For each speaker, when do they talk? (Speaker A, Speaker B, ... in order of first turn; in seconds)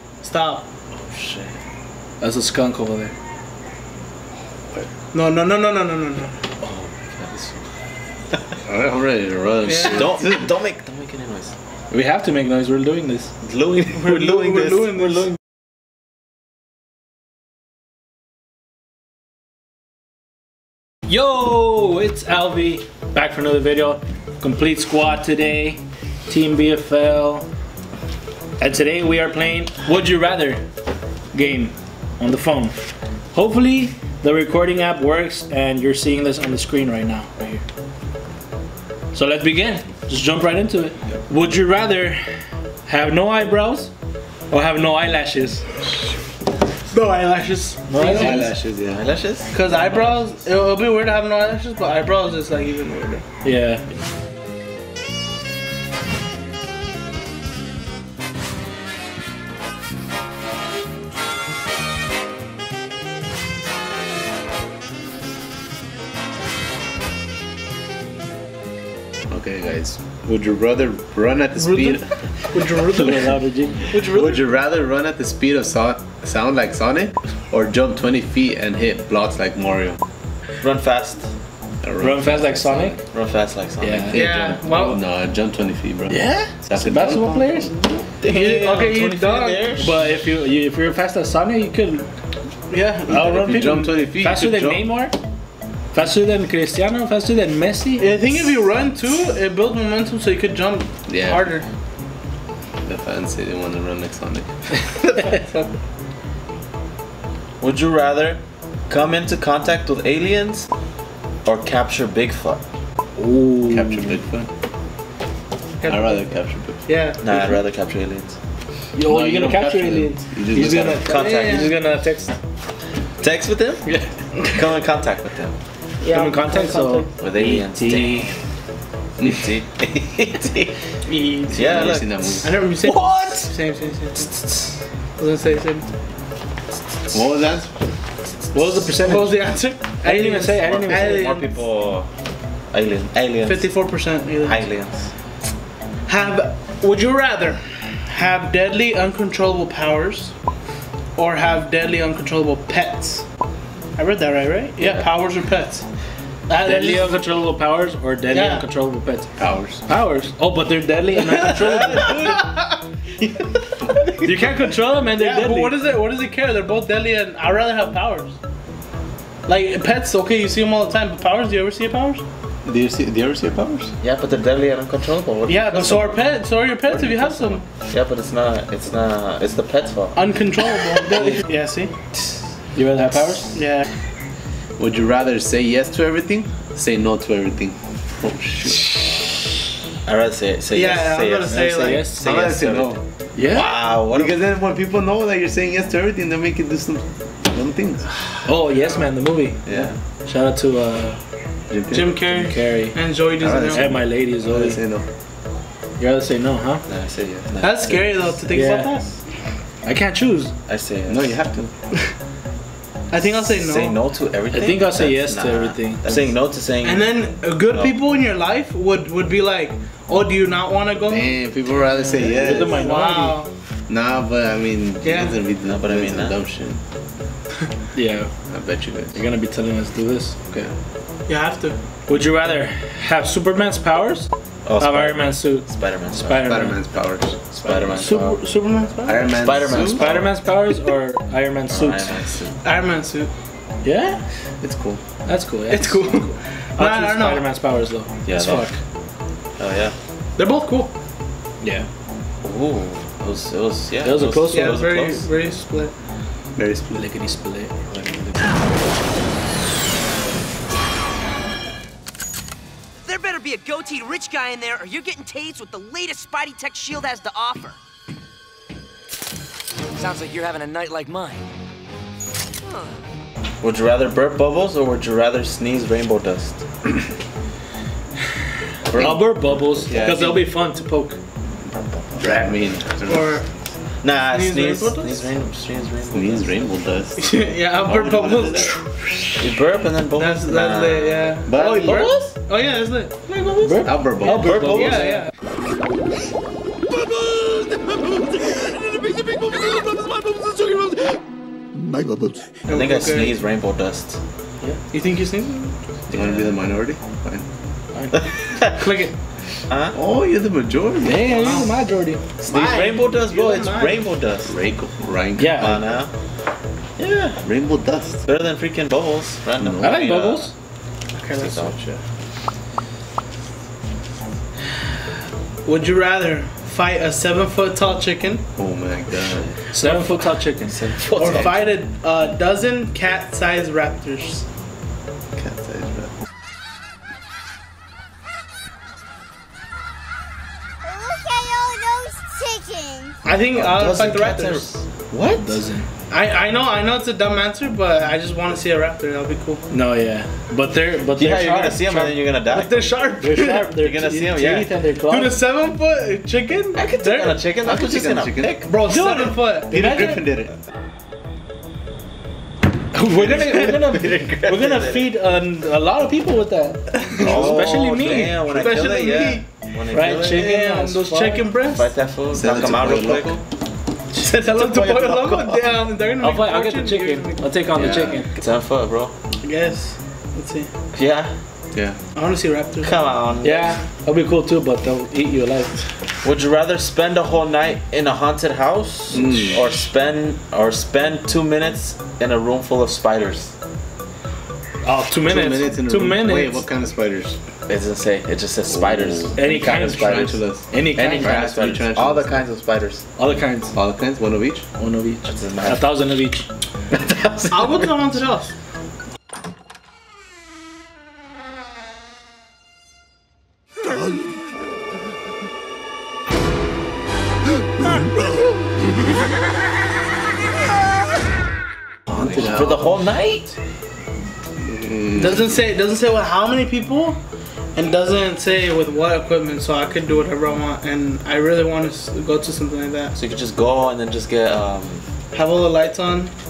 Speaker A: 0.2-0.7, 5.1-6.3, 9.6-10.2, 13.9-15.3, 46.9-48.5, 49.5-53.2, 71.6-74.5, 84.1-85.0, 88.2-89.7, 92.7-93.4, 98.0-101.7, 105.0-105.8, 115.8-116.3, 116.8-117.5, 121.1-121.7, 126.0-127.1, 131.1-131.5, 132.4-134.3, 135.2-135.9, 139.0-141.6, 143.4-144.6, 146.1-150.3, 151.1-153.2, 153.9-155.8, 156.5-157.2, 158.3-158.7, 161.5-162.8, 163.9-164.2, 165.1-168.3, 169.4-172.2, 175.5-177.6, 180.1-181.9, 183.5-183.9, 190.7-192.0, 201.9-203.9, 207.6-209.2, 213.1-214.0, 216.8-221.3, 222.5-223.5, 225.0-225.4, 231.3-231.8, 238.1-239.6, 242.6-243.3, 245.7-247.4, 250.4-250.9, 254.5-255.9, 283.0-283.4, 284.3-285.3, 287.2-289.0, 290.1-293.1, 294.7-295.3, 302.6-303.3, 304.9-305.7, 308.8-309.1, 311.2-311.8, 312.5-314.0, 321.1-322.0, 325.6-328.4, 331.1-334.4, 343.2-344.6, 346.1-349.6, 352.5-353.6, 355.1-357.4, 358.6-360.2, 367.1-367.6, 368.5-369.5, 370.3-371.9, 374.1-377.4, 379.4-380.7, 382.1-382.9, 407.5-408.5, 425.1-427.2, 427.7-433.1, 435.3-436.3
Speaker B: 0.9-1.6, 6.6-7.7, 8.3-8.6, 9.8-11.5, 13.4-14.9, 48.6-50.1, 80.6-81.3, 83.1-84.1, 88.2-90.0, 107.6-110.7, 111.4-112.6, 117.2-118.3, 121.0-121.8, 123.2-123.9, 124.4-125.6, 127.2-128.4, 129.2-130.7, 131.5-132.4, 134.2-134.8, 140.0-142.1, 142.7-145.1, 154.8-155.1, 174.0-176.2, 177.9-180.2, 190.0-194.4, 199.7-200.0, 206.9-208.4, 210.7-211.4, 213.2-218.0, 225.6-226.4, 234.6-236.6, 237.6-238.4, 239.4-240.3, 241.7-242.5, 248.2-248.7, 249.6-249.9, 252.4-255.2, 257.9-258.5, 273.6-276.6, 278.9-280.4, 281.6-282.6, 284.0-286.6, 289.4-292.3, 293.3-295.1, 302.7-304.2, 306.1-306.6, 308.1-308.8, 309.7-310.0, 312.4-314.5, 315.6-316.1, 317.0-317.5, 318.2-320.5, 321.4-321.7, 329.4-331.7, 343.5-345.6, 351.1-352.9, 353.7-354.7, 356.7-358.7, 363.1-365.1, 367.2-370.5, 371.7-373.4, 374.6-375.6, 377.7-379.1, 380.9-381.3, 382.8-383.7, 386.2-393.5, 397.7-400.4, 400.9-403.0, 405.2-406.0, 406.9-408.1, 422.1-423.5, 433.1-435.0
Speaker C: 2.2-3.1, 11.9-13.3, 21.1-27.5, 28.6-30.6, 31.3-32.7, 33.3-37.6, 39.1-42.2, 42.9-43.9, 44.5-45.6, 47.9-48.5, 53.4-53.8, 73.0-73.9, 82.0-83.0, 83.8-84.2, 86.1-87.7, 89.8-92.1, 93.1-95.2, 95.9-98.2, 113.2-114.2, 118.9-122.4, 126.1-128.3, 132.8-133.5, 138.5-141.4, 156.6-159.3, 159.8-162.5, 164.2-165.8, 182.7-183.6, 191.8-192.2, 193.3-193.8, 198.4-201.2, 202.2-203.0, 203.5-204.8, 206.0-206.8, 208.5-208.9, 209.8-210.5, 214.5-216.0, 221.9-223.4, 227.9-228.3, 229.1-230.7, 232.1-236.9, 238.0-238.7, 239.8-242.2, 243.8-244.2, 245.2-248.8, 251.6-251.8, 254.0-255.0, 256.9-257.7, 278.9-281.2, 293.6-295.3, 307.9-308.2, 311.0-312.2, 315.4-315.8, 319.8-320.5, 329.7-330.8, 345.4-345.9, 349.7-352.2, 353.2-355.4, 358.9-359.6, 362.9-368.5, 369.9-371.4, 376.2-378.3, 383.4-385.9, 394.8-396.6, 399.4-401.5, 403.2-403.8, 404.8-406.5
Speaker D: 8.7-10.4, 48.0-49.0, 69.3-72.1, 72.9-73.2, 73.9-80.0, 81.8-83.0, 84.1-87.7, 93.1-94.9, 101.1-101.5, 102.8-104.5, 113.7-114.5, 115.8-116.8, 119.0-121.0, 131.5-132.5, 137.1-137.7, 159.4-159.8, 172.6-173.9, 176.9-177.6, 184.8-189.0, 192.2-193.0, 194.0-198.1, 201.7-202.2, 203.4-205.0, 211.1-211.7, 221.1-223.0, 223.9-226.8, 228.5-229.1, 236.4-238.1, 239.1-240.0, 244.6-245.0, 256.6-257.0, 279.9-280.5, 282.2-283.4, 286.1-287.2, 287.8-288.8, 291.4-292.1, 293.8-294.5, 298.9-301.1, 306.1-307.4, 309.9-311.5, 314.4-315.8, 317.4-318.2, 319.6-319.9, 328.6-329.6, 335.4-336.1, 357.6-358.6, 359.7-360.5, 372.3-373.4, 389.1-389.8, 395.2-397.4, 398.7-399.4, 399.9-402.4, 403.7-404.6, 422.1-422.9, 424.6-425.4
Speaker E: 263.0-267.8, 269.9-271.4, 272.7-272.9